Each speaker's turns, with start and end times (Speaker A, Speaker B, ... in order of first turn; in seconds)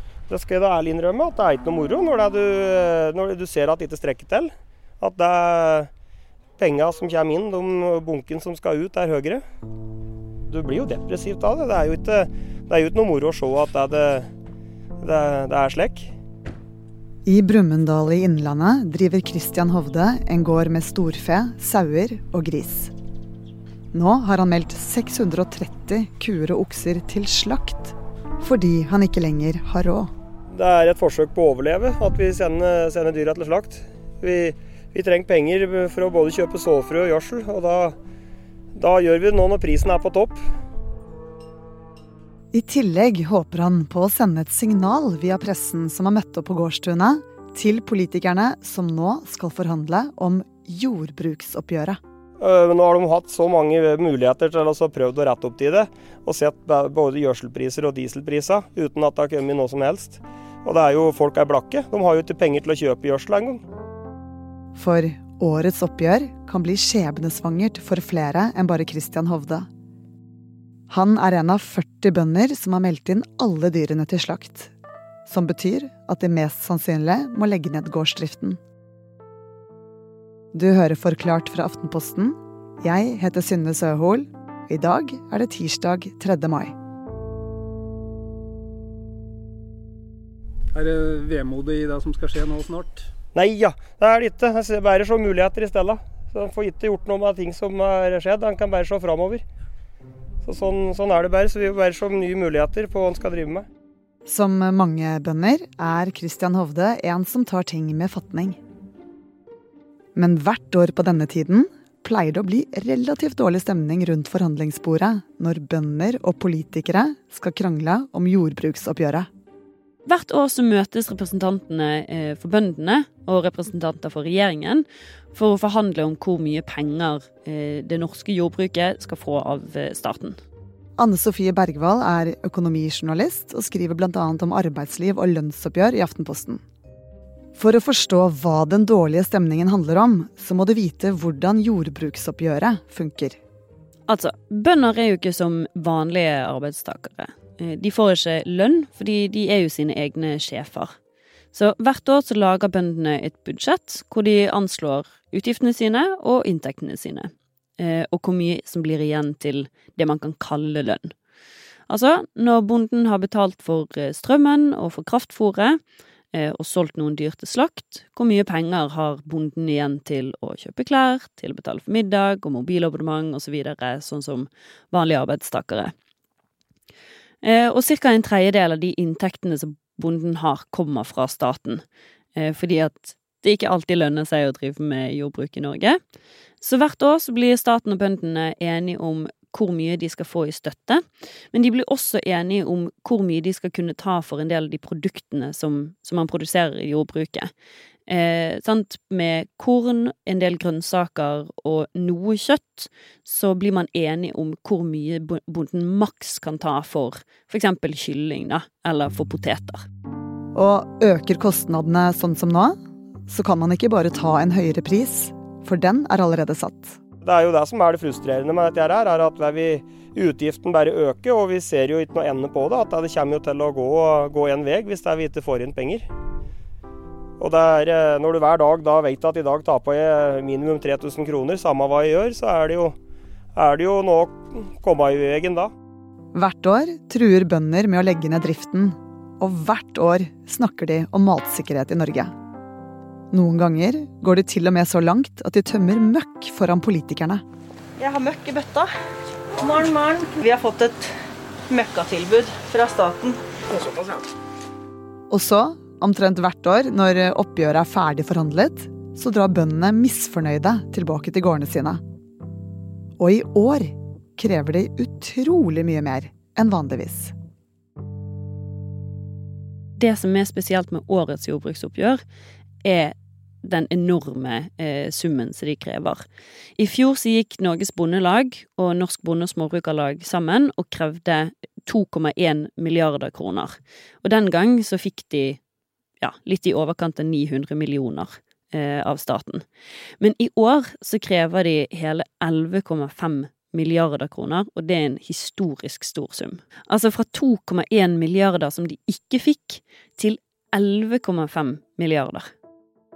Speaker A: 0.3-5.9, 6.6-9.4, 10.5-14.3, 15.0-16.1, 30.5-38.0, 38.8-40.4, 52.4-63.6, 93.3-99.4, 100.4-103.7, 217.2-226.1, 227.4-233.0, 233.6-235.7
Speaker B: 17.2-22.9, 23.9-30.1, 42.5-52.0, 64.8-69.7, 70.9-74.7, 75.2-78.6, 80.5-86.7, 104.3-108.6, 110.1-119.3, 131.0-136.6, 137.6-143.4, 210.5-212.8, 213.3-217.0, 236.3-242.3, 243.3-247.4, 255.3-262.0, 263.2-267.3
Speaker C: 90.7-93.0
Speaker D: 120.0-130.4, 144.1-150.9, 151.5-161.1, 161.9-165.8, 166.3-175.9, 177.4-181.8, 182.3-186.0, 186.6-197.5, 198.1-209.8, 270.0-272.2, 272.8-276.2, 276.8-285.6, 286.2-289.6, 290.2-302.5
Speaker E: 248.0-248.9, 249.6-251.1, 251.7-254.1